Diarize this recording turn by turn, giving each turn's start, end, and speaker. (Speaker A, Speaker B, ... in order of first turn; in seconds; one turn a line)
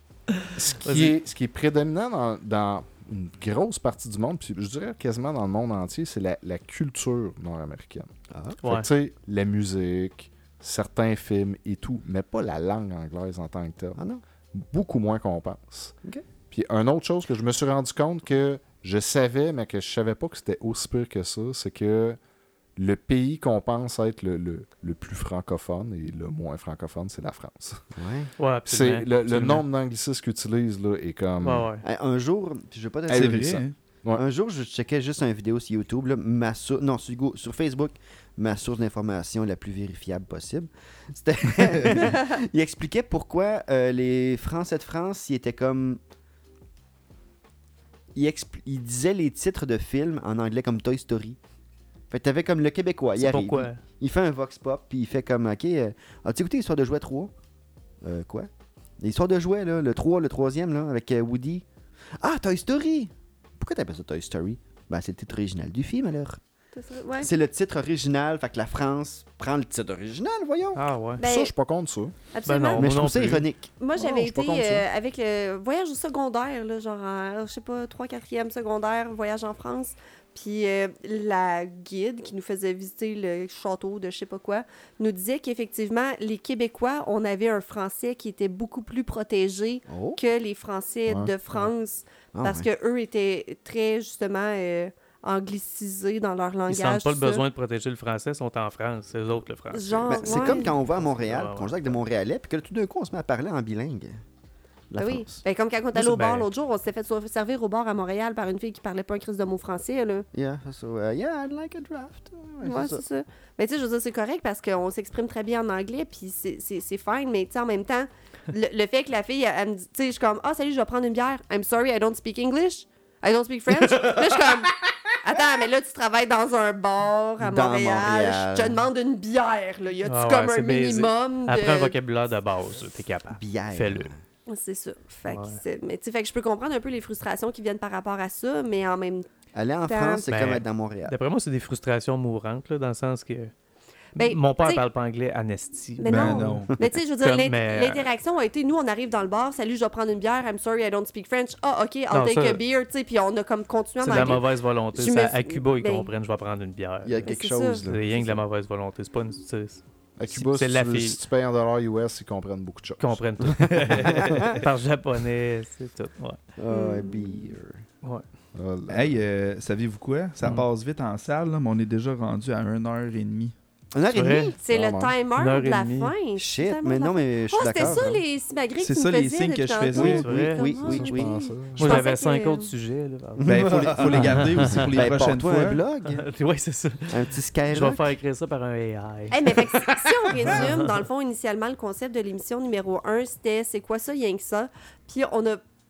Speaker A: 0.3-1.1
Speaker B: 0.6-8.1
Speaker C: 8.3-8.6
Speaker A: 8.6-8.9
Speaker B: 8.6-14.0
Speaker C: 14.0-14.2
Speaker B: 14.5-15.9
Speaker B: 16.5-22.2
Speaker B: 22.8-27.8
Speaker C: 27.9-28.3
Speaker A: 28.4-29.6
Speaker B: 28.6-31.7
Speaker A: 31.4-31.8
Speaker C: 31.8-33.6
Speaker B: 33.1-34.2
Speaker D: 33.1-33.7
Speaker C: 34.1-46.0
Speaker C: 48.1-51.4
Speaker C: 52.1-57.3
Speaker A: 53.2-53.8
Speaker C: 58.0-61.6
Speaker C: 62.2-66.4
Speaker E: 66.7-67.3
Speaker C: 67.2-70.8
Speaker A: 70.8-71.2
Speaker E: 71.2-71.5
Speaker B: 71.2-72.1
Speaker E: 72.3-72.9
Speaker A: 72.5-73.5
Speaker C: 72.8-73.7
Speaker E: 73.8-97.4
Speaker B: 74.0-74.8
Speaker C: 89.9-90.2
Speaker B: 91.1-91.3
Speaker C: 92.3-92.7
Speaker A: 96.7-102.0
Speaker E: 99.7-100.7
Speaker C: 100.1-104.2
Speaker C: 104.9-105.4
Speaker E: 105.0-110.2
Speaker A: 105.9-106.5
Speaker C: 110.3-113.0
Speaker E: 112.6-131.9
Speaker C: 127.4-128.8
Speaker A: 130.1-134.1
Speaker C: 133.3-134.1
Speaker E: 134.5-139.2
Speaker A: 135.3-135.6
Speaker C: 139.5-141.1
Speaker E: 139.9-140.2
Speaker A: 140.3-143.5
Speaker E: 144.2-144.8
Speaker A: 144.2-148.1
Speaker E: 146.0-156.1
Speaker D: 146.1-146.7
Speaker A: 152.1-152.6
Speaker A: 154.0-161.2
Speaker C: 157.0-158.4
Speaker E: 157.2-157.8
Speaker B: 160.2-163.2
Speaker A: 163.0-166.4
Speaker C: 163.5-164.7
Speaker C: 166.6-167.8
Speaker E: 166.7-167.5
Speaker B: 168.6-169.1
Speaker D: 168.9-173.5
Speaker A: 170.4-170.7
Speaker C: 173.9-174.6
Speaker A: 174.1-174.5
Speaker E: 174.6-182.7
Speaker B: 174.7-175.1
Speaker A: 175.3-176.1
Speaker C: 176.3-178.2
Speaker D: 178.8-180.2
Speaker C: 179.9-181.4
Speaker A: 180.2-180.7
Speaker B: 180.8-182.0
Speaker A: 181.8-184.9
Speaker C: 183.4-186.2
Speaker D: 183.4-185.8
Speaker A: 186.0-189.5
Speaker C: 187.1-188.2
Speaker E: 189.3-195.6
Speaker A: 190.4-191.0